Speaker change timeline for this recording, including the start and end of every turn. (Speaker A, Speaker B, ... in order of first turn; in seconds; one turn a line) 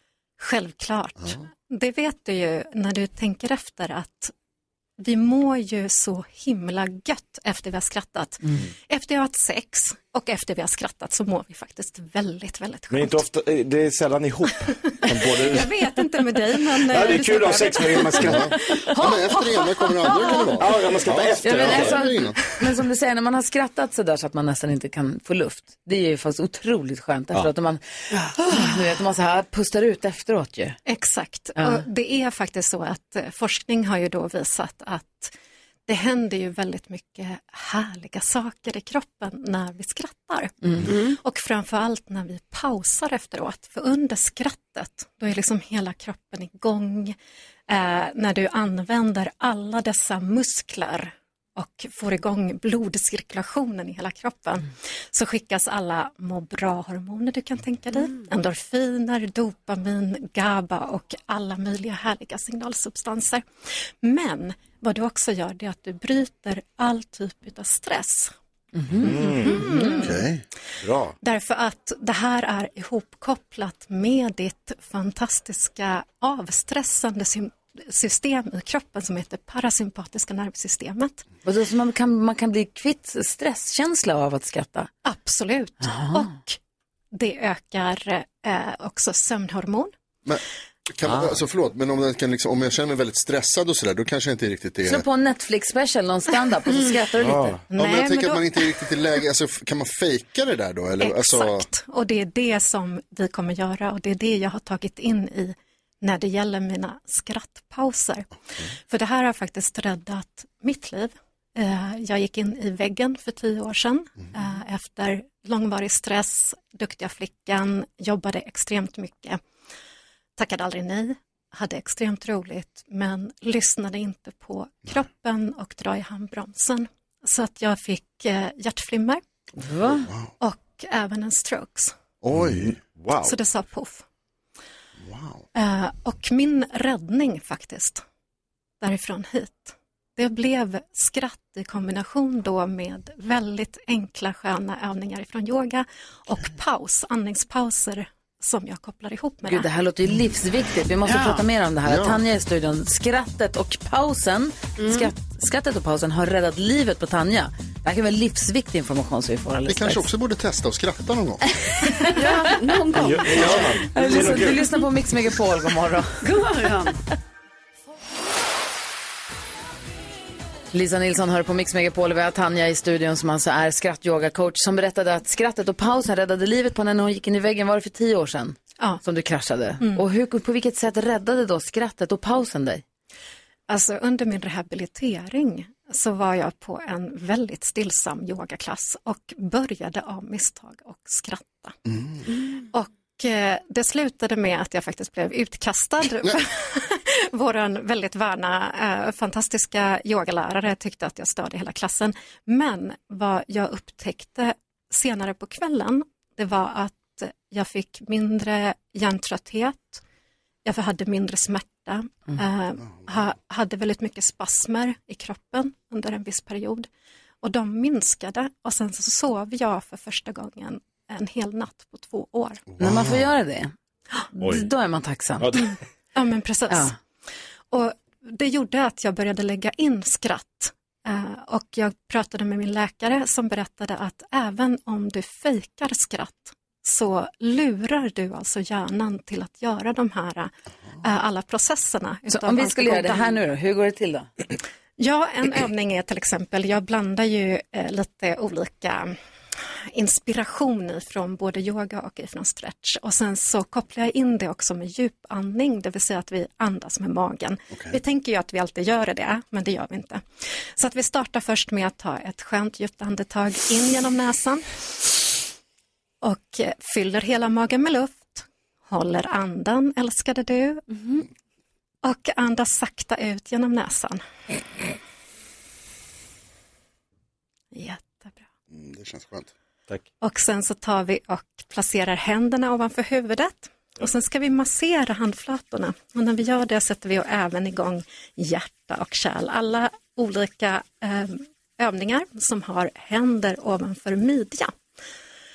Speaker A: 0.4-4.3
Speaker A: 5.0-13.2
Speaker B: 12.9-15.8
Speaker A: 14.7-18.3
Speaker B: 16.8-18.6
Speaker C: 18.2-22.4
Speaker D: 18.4-20.5
Speaker A: 20.1-20.4
Speaker B: 20.6-22.0
Speaker D: 21.4-30.8
Speaker E: 28.1-28.6
Speaker A: 30.9-35.3
Speaker D: 31.6-31.8
Speaker A: 35.9-47.2
Speaker E: 40.9-41.2
Speaker A: 47.7-68.3
Speaker D: 68.8-69.9
Speaker B: 69.0-69.8
Speaker A: 69.4-70.3
Speaker C: 70.0-70.4
Speaker B: 70.8-71.2
Speaker A: 71.2-81.2
Speaker D: 81.5-84.9
Speaker A: 85.0-86.6
Speaker D: 85.8-86.3
Speaker A: 87.1-89.9
Speaker C: 90.2-95.0
Speaker B: 91.1-91.3
Speaker D: 94.9-97.6
Speaker B: 97.2-97.6
Speaker A: 97.7-98.9
Speaker C: 97.8-101.7
Speaker A: 101.0-108.3
Speaker A: 108.9-119.4
Speaker A: 120.4-129.2
Speaker D: 129.6-130.1
Speaker A: 130.4-131.9
Speaker C: 132.2-132.8
Speaker B: 132.3-133.3
Speaker A: 133.2-134.1
Speaker C: 135.0-135.4
Speaker A: 135.5-138.0
Speaker A: 138.8-149.7
Speaker D: 149.5-160.1
Speaker E: 151.1-151.4
Speaker C: 151.9-152.2
Speaker E: 154.8-155.1
Speaker C: 159.7-161.4
Speaker D: 161.8-162.6
Speaker E: 162.2-163.8
Speaker B: 162.9-164.7
Speaker D: 163.3-166.2
Speaker E: 166.2-167.0
Speaker D: 170.7-182.8
Speaker A: 183.7-191.8
Speaker C: 191.9-192.2
Speaker A: 192.7-210.0
Speaker A: 210.7-216.9
Speaker A: 217.4-222.7
Speaker C: 222.8-223.1
Speaker D: 222.8-223.7
Speaker D: 224.3-225.6
Speaker B: 224.4-224.7
Speaker B: 225.4-225.7
Speaker A: 226.1-227.0
Speaker A: 227.7-243.4
Speaker D: 242.3-244.3
Speaker A: 245.0-249.2
Speaker A: 249.9-265.3
Speaker A: 266.2-271.2
Speaker A: 272.0-274.2
Speaker A: 277.7-278.5
Speaker C: 278.7-279.5
Speaker A: 280.2-294.7